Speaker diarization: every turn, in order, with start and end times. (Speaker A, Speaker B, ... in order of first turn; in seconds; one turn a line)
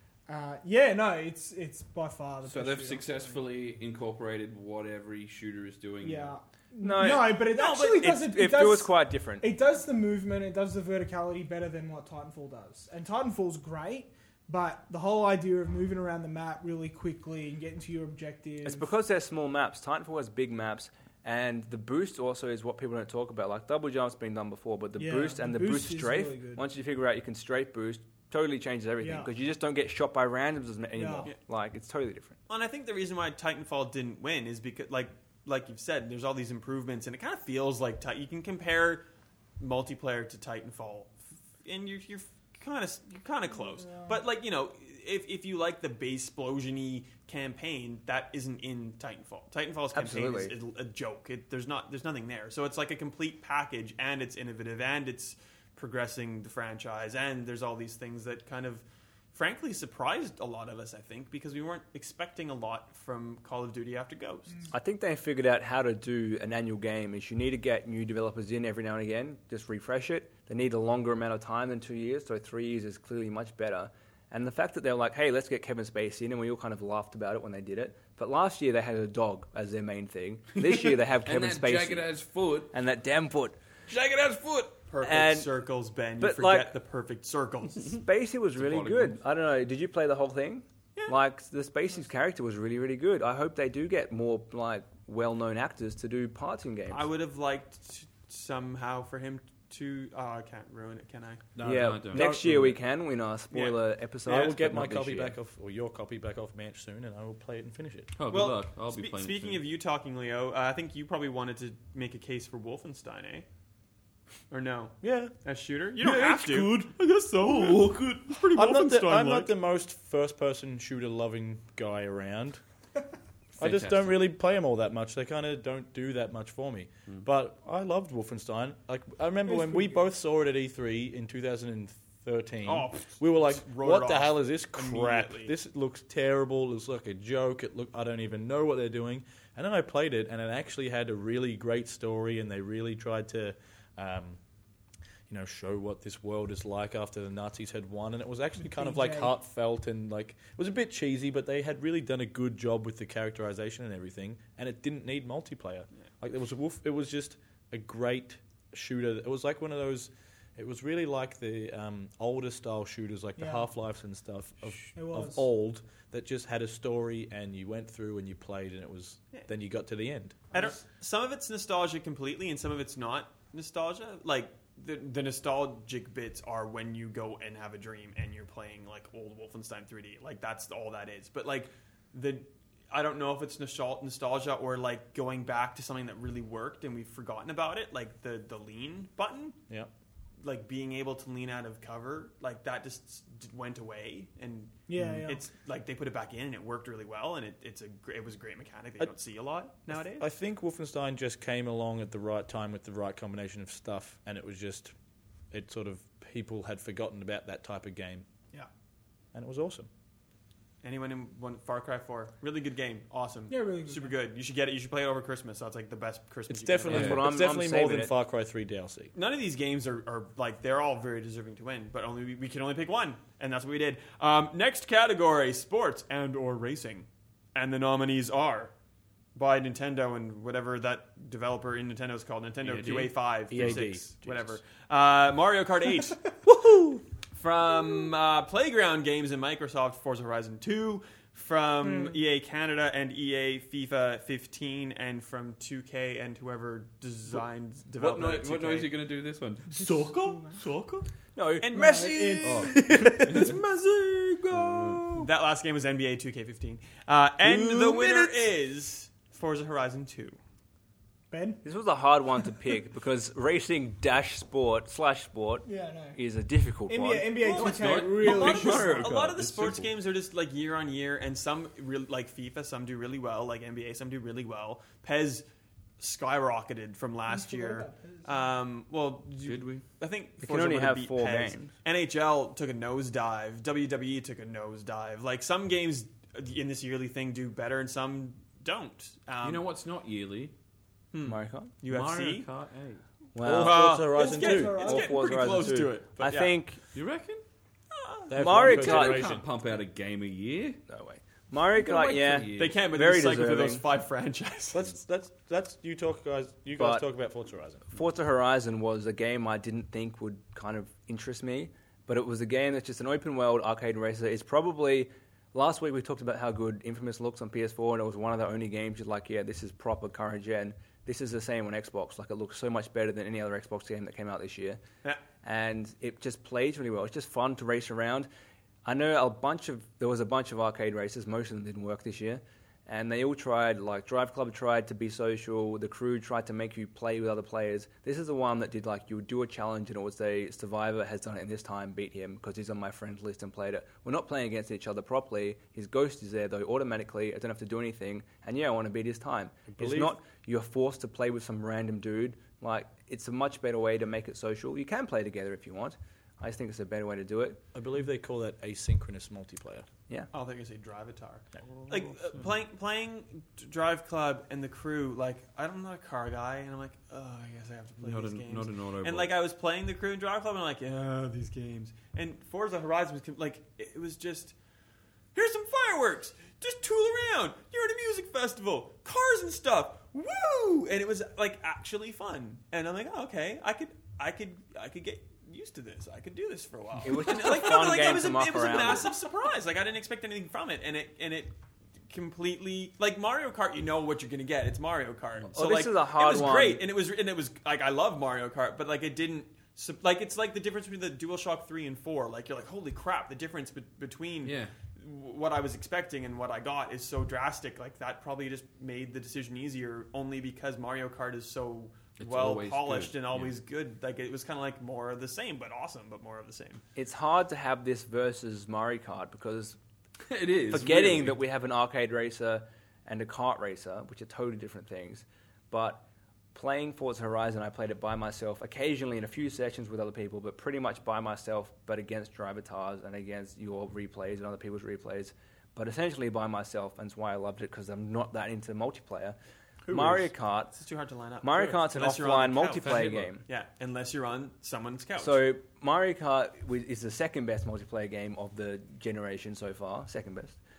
Speaker A: 0.3-3.3
Speaker B: 2.5-6.3
Speaker A: 6.0-18.9
Speaker C: 6.8-9.5
Speaker C: 18.6-32.4
Speaker A: 25.0-26.6
Speaker A: 29.0-29.3
Speaker A: 30.9-31.3
Speaker D: 32.5-39.0
Speaker D: 39.6-64.6
Speaker A: 43.7-44.2
Speaker C: 49.9-50.5
Speaker C: 64.7-82.1
Speaker B: 80.6-82.7
Speaker C: 82.7-83.5
Speaker B: 83.9-84.8
Speaker D: 84.9-88.0
Speaker C: 85.0-85.5
Speaker C: 86.2-86.7
Speaker C: 87.8-97.1
Speaker B: 88.5-89.2
Speaker D: 96.9-101.4
Speaker E: 101.5-102.8
Speaker C: 101.6-105.3
Speaker B: 101.6-102.4
Speaker D: 103.5-103.8
Speaker E: 104.2-108.1
Speaker B: 108.2-109.6
Speaker D: 108.3-113.5
Speaker D: 114.5-119.5
Speaker E: 115.0-115.3
Speaker E: 116.0-122.6
Speaker B: 123.6-124.2
Speaker E: 123.6-144.4
Speaker A: 129.4-130.0
Speaker D: 132.6-135.5
Speaker E: 145.3-170.4
Speaker A: 148.6-149.3
Speaker A: 163.4-163.7
Speaker A: 164.9-165.4
Speaker D: 170.5-189.6
Speaker D: 190.4-200.3
Speaker A: 194.9-195.5
Speaker E: 199.9-204.9
Speaker E: 205.5-208.2
Speaker E: 209.3-209.9
Speaker D: 210.8-217.3
Speaker A: 213.5-214.1
Speaker E: 216.5-219.1
Speaker C: 216.9-218.1
Speaker B: 216.9-217.2
Speaker D: 219.1-228.7
Speaker D: 229.3-236.2
Speaker B: 232.6-233.8
Speaker E: 233.5-234.0
Speaker C: 233.5-233.9
Speaker D: 237.3-248.9
Speaker B: 248.0-249.9
Speaker A: 249.7-250.6
Speaker D: 250.2-251.0
Speaker C: 251.3-253.6
Speaker D: 251.6-252.7
Speaker A: 251.7-253.6
Speaker B: 252.4-253.6
Speaker C: 254.6-255.0
Speaker D: 255.2-260.4
Speaker E: 257.4-257.8
Speaker C: 257.8-258.4
Speaker A: 261.3-261.6
Speaker C: 261.6-267.5
Speaker A: 265.6-266.2
Speaker A: 266.9-269.1
Speaker D: 267.4-275.4
Speaker B: 267.5-269.9
Speaker D: 276.0-289.6
Speaker A: 277.3-278.3
Speaker B: 279.4-279.8
Speaker C: 280.4-281.7
Speaker B: 289.4-290.5
Speaker D: 291.1-292.5
Speaker C: 291.2-291.7
Speaker B: 291.9-293.0
Speaker C: 293.3-294.1
Speaker E: 293.4-294.9
Speaker D: 293.6-296.6
Speaker A: 294.1-295.4
Speaker C: 294.8-296.8
Speaker B: 296.9-297.4
Speaker D: 297.9-298.4
Speaker E: 298.3-299.4
Speaker C: 298.3-299.3
Speaker B: 298.5-300.8
Speaker C: 300.9-303.8
Speaker B: 301.7-302.7
Speaker D: 302.5-304.9
Speaker E: 304.7-307.9
Speaker C: 306.8-307.0
Speaker C: 307.9-324.8
Speaker C: 325.4-328.3
Speaker C: 328.8-357.6
Speaker E: 349.7-350.2
Speaker E: 357.7-359.9
Speaker D: 360.3-374.6
Speaker B: 368.0-369.3
Speaker D: 375.3-391.5
Speaker C: 387.0-389.1
Speaker D: 392.1-416.8
Speaker C: 395.5-396.8
Speaker B: 404.4-404.7
Speaker B: 412.2-413.5
Speaker C: 416.9-419.8
Speaker B: 420.3-421.4
Speaker C: 420.7-426.0
Speaker C: 426.5-439.4
Speaker E: 439.9-440.3
Speaker C: 439.9-440.7
Speaker D: 440.7-445.5
Speaker C: 441.4-443.4
Speaker B: 442.8-443.3
Speaker C: 445.2-450.6